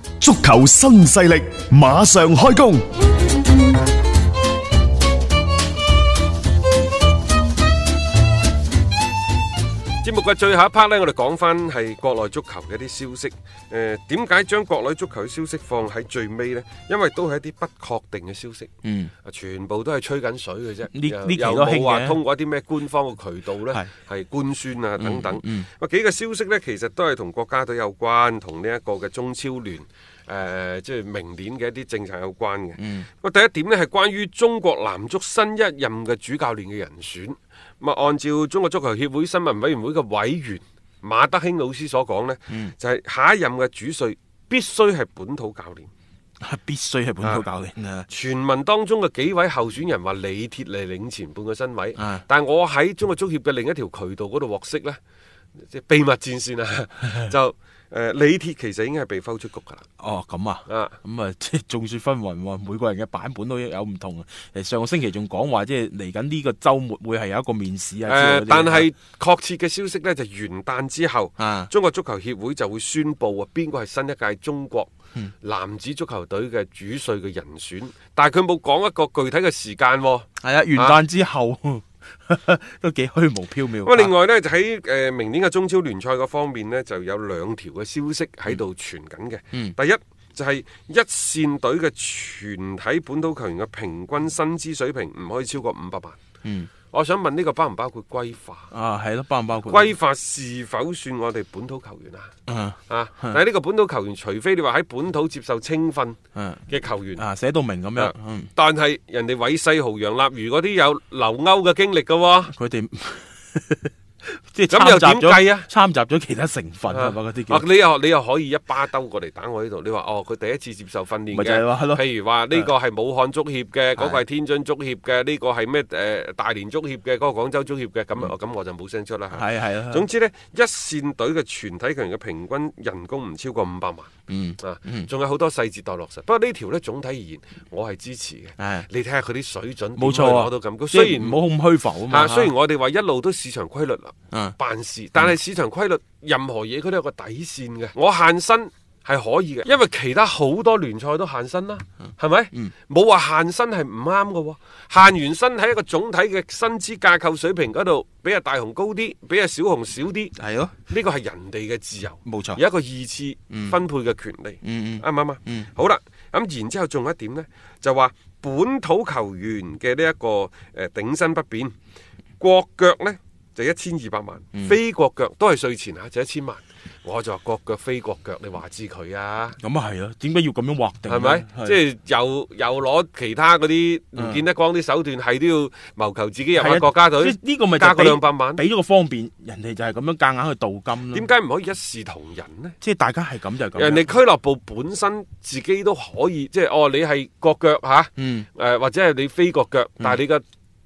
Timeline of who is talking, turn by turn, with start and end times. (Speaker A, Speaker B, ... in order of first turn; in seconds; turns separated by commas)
Speaker A: 0.2-2.9, Speaker B: 10.0-18.7, Speaker C: 18.8-19.1, Speaker B: 19.2-45.9, Speaker C: 20.9-22.2, Speaker C: 25.0-25.7, Speaker C: 32.8-33.1, Speaker C: 46.4-48.1, Speaker B: 48.1-55.0, Speaker C: 52.0-52.2, Speaker B: 55.7-59.9, Speaker C: 60.0-68.9, Speaker B: 60.7-61.0, Speaker B: 68.1-81.0, Speaker C: 71.4-71.7, Speaker C: 80.4-84.1, Speaker B: 83.8-96.2, Speaker C: 96.4-96.7, Speaker B: 96.9-98.7, Speaker C: 98.7-99.9, Speaker B: 99.6-102.3, Speaker C: 102.5-103.4, Speaker B: 102.9-106.2, Speaker C: 106.3-106.7, Speaker B: 106.7-107.3, Speaker C: 107.2-108.5, Speaker B: 108.0-112.5, Speaker C: 112.5-117.7, Speaker B: 114.7-115.7, Speaker B: 116.9-141.4, Speaker C: 121.3-122.7, Speaker C: 124.0-124.2, Speaker C: 129.3-130.1, Speaker C: 134.3-135.1, Speaker C: 138.6-138.9, Speaker C: 140.0-142.5, Speaker B: 142.1-160.3, Speaker C: 160.4-160.7, Speaker B: 160.9-171.7, Speaker C: 162.3-162.6, Speaker C: 163.5-163.8, Speaker C: 164.6-165.7, Speaker B: 172.4-179.6, Speaker C: 179.6-181.8, Speaker B: 181.1-188.6, Speaker C: 184.2-184.4, Speaker C: 186.6-191.3, Speaker B: 191.1-192.8, Speaker C: 192.8-194.1, Speaker B: 193.7-200.4, Speaker C: 198.2-198.5